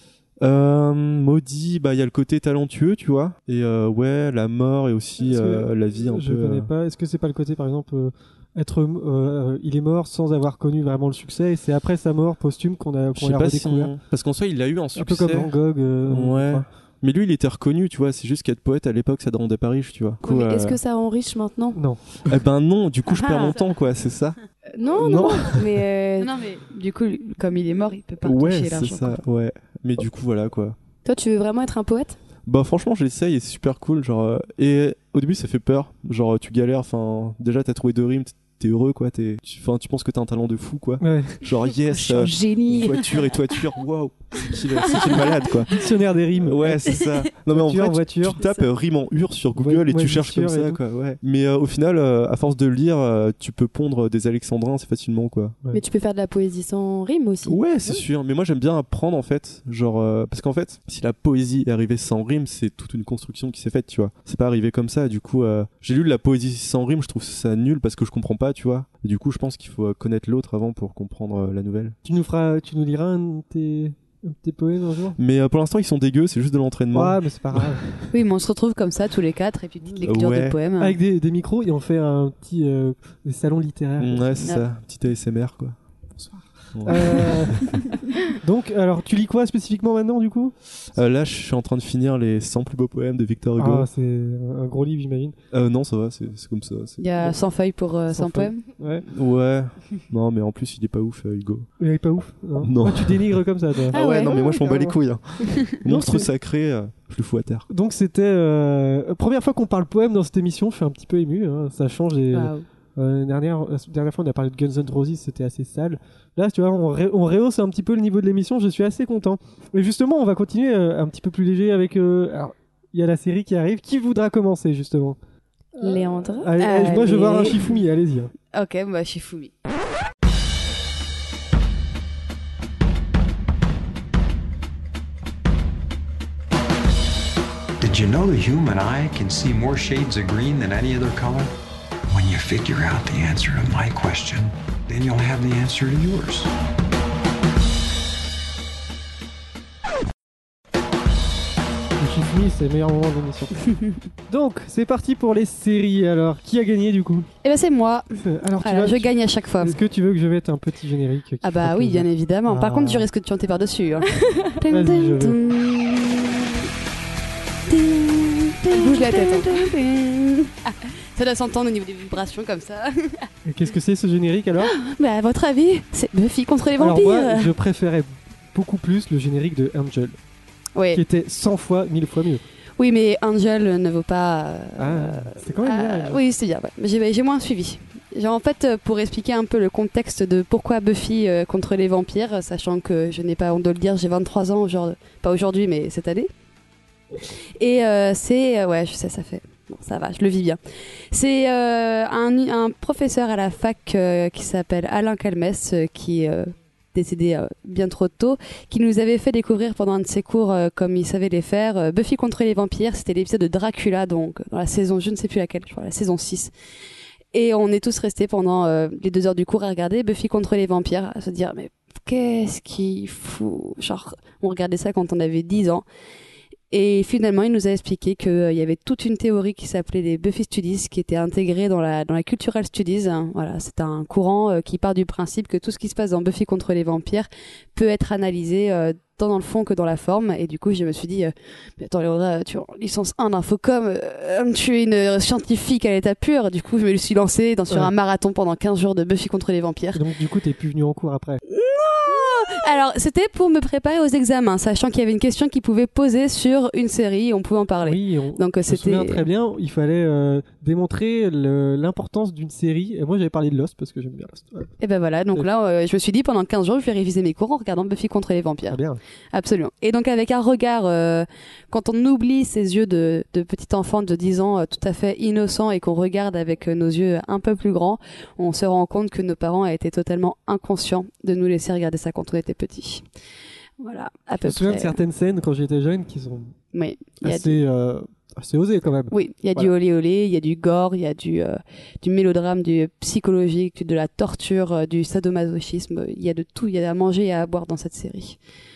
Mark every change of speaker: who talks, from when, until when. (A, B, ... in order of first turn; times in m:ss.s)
0:00.4-0:06.7 A
0:05.2-0:13.9 B
0:13.1-0:20.8 A
0:15.0-0:16.6 B
0:20.2-0:21.8 C
0:21.7-0:22.2 B
0:22.2-0:24.4 A
0:23.2-0:23.5 C
0:24.7-0:26.3 C
0:24.9-0:25.8 A
0:26.2-0:29.2 D
0:28.2-0:30.8 A
0:31.0-0:32.2 C
0:32.4-0:45.8 A
0:41.0-0:41.4 B
0:41.9-0:43.0 C
0:45.7-0:46.9 B
0:46.4-0:55.6 A
0:47.5-0:48.4 B
0:49.6-0:50.8 B
0:55.7-0:57.6 C
0:57.4-1:12.0 A
1:12.0-1:15.2 B
1:15.2-1:18.0 A
1:16.9-1:17.9 B
1:18.1-1:21.0 D
1:20.0-1:20.6 A
1:20.8-1:24.4 B
1:24.0-1:25.8 A
1:26.2-1:30.5 B
1:26.7-1:27.7 A
1:30.9-1:33.9 A
1:33.6-1:35.3 B
1:35.5-1:37.0 A
1:37.0-1:38.6 D
1:38.1-1:39.0 B
1:39.1-1:41.7 A
1:41.8-1:45.0 B
1:42.6-1:47.7 A
1:43.9-1:44.3 D
1:44.0-1:44.3 C
1:45.8-1:46.2 B
1:47.7-2:05.2 B
1:52.3-1:52.6 D
2:05.8-2:08.3 B
2:05.8-2:07.5 C
2:06.6-2:07.8 D
2:08.5-2:09.5 D
2:17.8-2:21.5 E
2:22.1-2:26.5 E
2:32.0-2:33.5 B
2:34.3-2:37.3 B
2:37.4-2:39.8 D
2:38.2-2:39.1 B
2:39.6-2:43.0 B
2:41.4-2:46.7 D
2:44.7-2:45.4 B
2:47.7-2:53.3 D
2:48.7-2:49.6 C
2:53.4-2:54.7 B
2:54.6-2:57.5 D
2:56.8-3:00.2 B
3:00.7-3:01.0 D
3:00.9-3:02.4 B
3:02.8-3:16.3 D
3:04.8-3:06.2 B
3:17.6-3:20.6 D
3:21.1-3:36.5 D
3:37.3-3:45.8 D
3:46.7-4:10.0 D
4:09.9-4:11.4 B
4:11.5-4:19.2 D
4:17.8-4:24.7 B
4:24.8-4:28.8 D
4:28.7-4:29.0 B
4:29.3-4:43.0 D
4:43.8-4:44.9 D
4:44.4-4:46.5 B
4:46.7-4:47.6 D
4:47.2-4:49.7 B
4:49.1-4:58.4 D